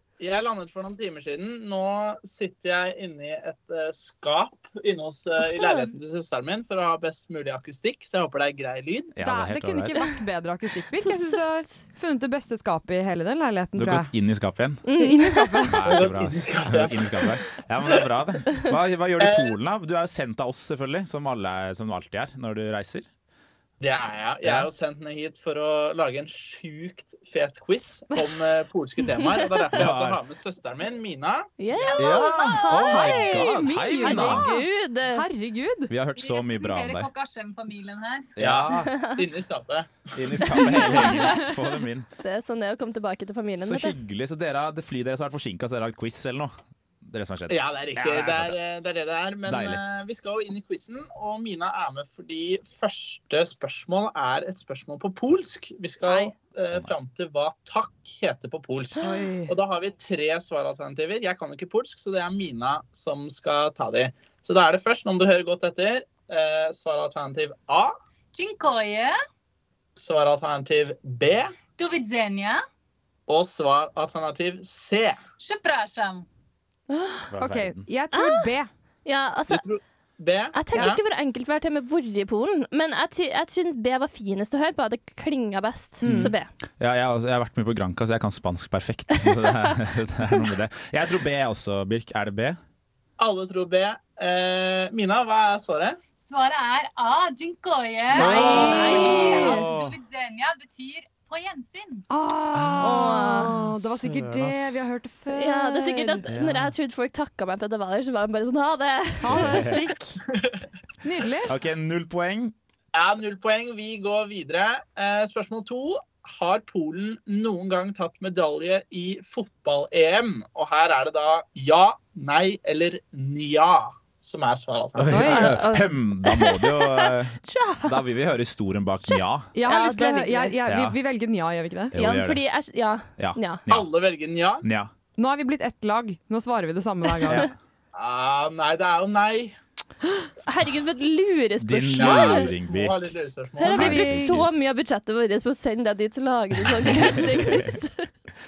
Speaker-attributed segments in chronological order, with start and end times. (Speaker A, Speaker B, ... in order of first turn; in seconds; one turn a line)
Speaker A: 0.2-9.1
Speaker B: 5.4-5.9
Speaker C: 9.1-10.0
Speaker D: 9.2-14.1
Speaker B: 11.0-11.8
Speaker C: 13.7-14.8
Speaker B: 14.8-15.8
Speaker D: 14.9-16.0
Speaker C: 15.7-23.1
Speaker A: 15.9-17.4
Speaker A: 19.2-19.5
Speaker A: 23.8-31.8
Speaker B: 29.1-29.6
Speaker C: 29.7-30.2
Speaker B: 31.6-33.2
Speaker E: 31.7-33.1
Speaker C: 31.9-34.5
Speaker D: 32.8-35.9
Speaker B: 34.0-35.2
Speaker C: 35.9-37.1
Speaker E: 36.1-38.3
Speaker C: 38.4-38.9
Speaker A: 38.4-40.6
Speaker B: 38.8-39.1
Speaker C: 40.1-42.1
Speaker B: 40.4-41.5
Speaker D: 41.0-41.4
Speaker B: 42.2-44.0
Speaker C: 43.6-48.5
Speaker A: 47.5-67.9
Speaker C: 49.5-49.8
Speaker B: 56.0-56.3
Speaker D: 59.0-59.5
Speaker E: 68.3-69.1
Speaker A: 70.0-71.5
Speaker E: 71.8-72.6
Speaker A: 73.3-75.2
Speaker E: 75.4-76.2
Speaker B: 76.9-77.3
Speaker C: 77.3-77.9
Speaker D: 77.4-78.7
Speaker B: 78.1-78.5
Speaker B: 79.0-79.6
Speaker A: 79.5-81.0
Speaker B: 80.5-86.5
Speaker D: 86.0-86.3
Speaker C: 86.1-92.6
Speaker B: 89.3-89.7
Speaker A: 93.2-96.0
Speaker E: 96.2-102.0
Speaker D: 98.1-99.6
Speaker C: 98.2-100.0
Speaker B: 98.2-99.6
Speaker A: 98.5-99.4
Speaker D: 102.1-106.2
Speaker C: 102.5-104.9
Speaker B: 102.8-103.5
Speaker B: 105.3-109.9
Speaker C: 106.3-106.7
Speaker D: 109.2-110.2
Speaker C: 109.3-109.8
Speaker D: 111.0-111.5
Speaker C: 111.4-112.5
Speaker A: 112.9-125.3
Speaker C: 125.0-129.5
Speaker B: 125.1-128.0
Speaker D: 125.1-125.6
Speaker B: 129.1-130.6
Speaker D: 129.5-131.9
Speaker C: 130.6-131.0
Speaker C: 131.9-132.4
Speaker B: 131.9-133.7
Speaker C: 133.2-133.9
Speaker A: 133.7-134.7
Speaker C: 134.6-134.9
Speaker D: 135.2-137.5
Speaker C: 137.3-137.5
Speaker A: 137.9-139.5
Speaker B: 140.4-142.5
Speaker C: 141.6-143.1
Speaker A: 142.0-143.8
Speaker B: 143.6-148.1
Speaker C: 143.6-144.6
Speaker D: 143.6-144.3
Speaker C: 146.6-147.8